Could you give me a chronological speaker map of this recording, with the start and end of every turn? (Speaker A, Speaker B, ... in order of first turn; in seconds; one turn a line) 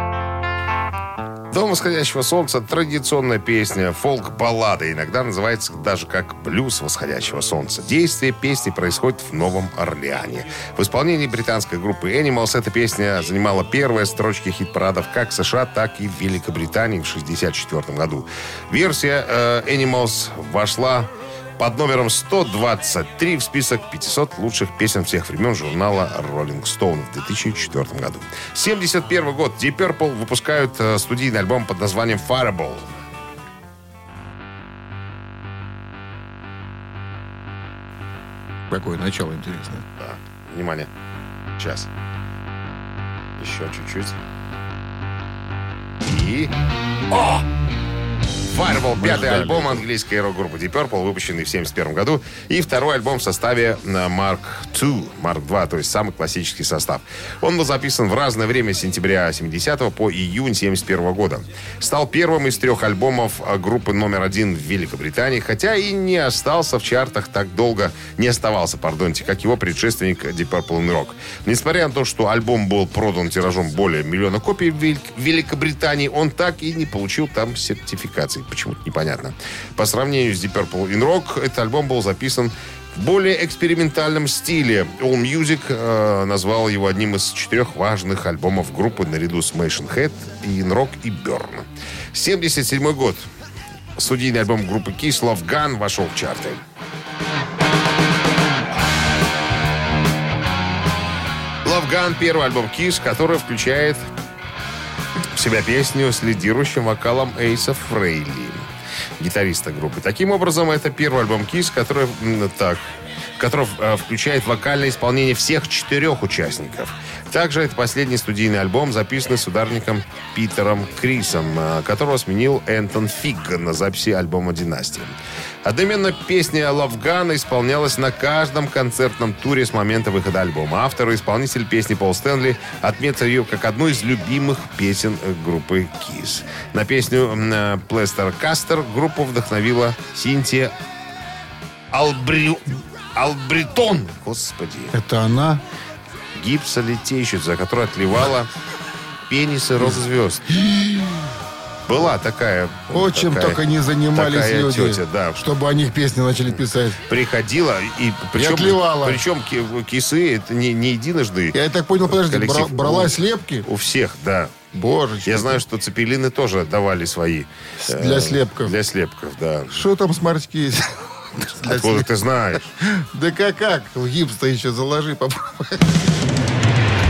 Speaker A: 1.5-32.9
Speaker B: 38.7-39.9
Speaker A: 40.0-40.9
Speaker A: 41.6-41.9
Speaker A: 43.4-44.2
Speaker A: 46.0-46.5
Speaker A: 47.1-47.4
Speaker A: 48.5-93.2
Speaker B: 48.7-49.8
Speaker A: 94.0-96.6
Speaker A: 101.6-104.0
Speaker A: 105.3-108.6
Speaker A: 109.2-112.8
Speaker A: 113.4-140.7
Speaker A: 141.9-144.9
Speaker B: 144.9-145.6
Speaker A: 146.3-148.5
Speaker A: 149.3-150.5
Speaker B: 149.8-151.3
Speaker A: 151.9-153.6
Speaker B: 152.9-157.0
Speaker A: 154.1-155.4
Speaker A: 157.1-164.5
Speaker B: 158.3-159.2
Speaker B: 161.5-163.7
Speaker B: 164.7-165.6
Speaker A: 165.2-169.8
Speaker B: 167.8-168.7
Speaker B: 169.7-172.1
Speaker A: 171.6-172.7
Speaker B: 172.8-175.9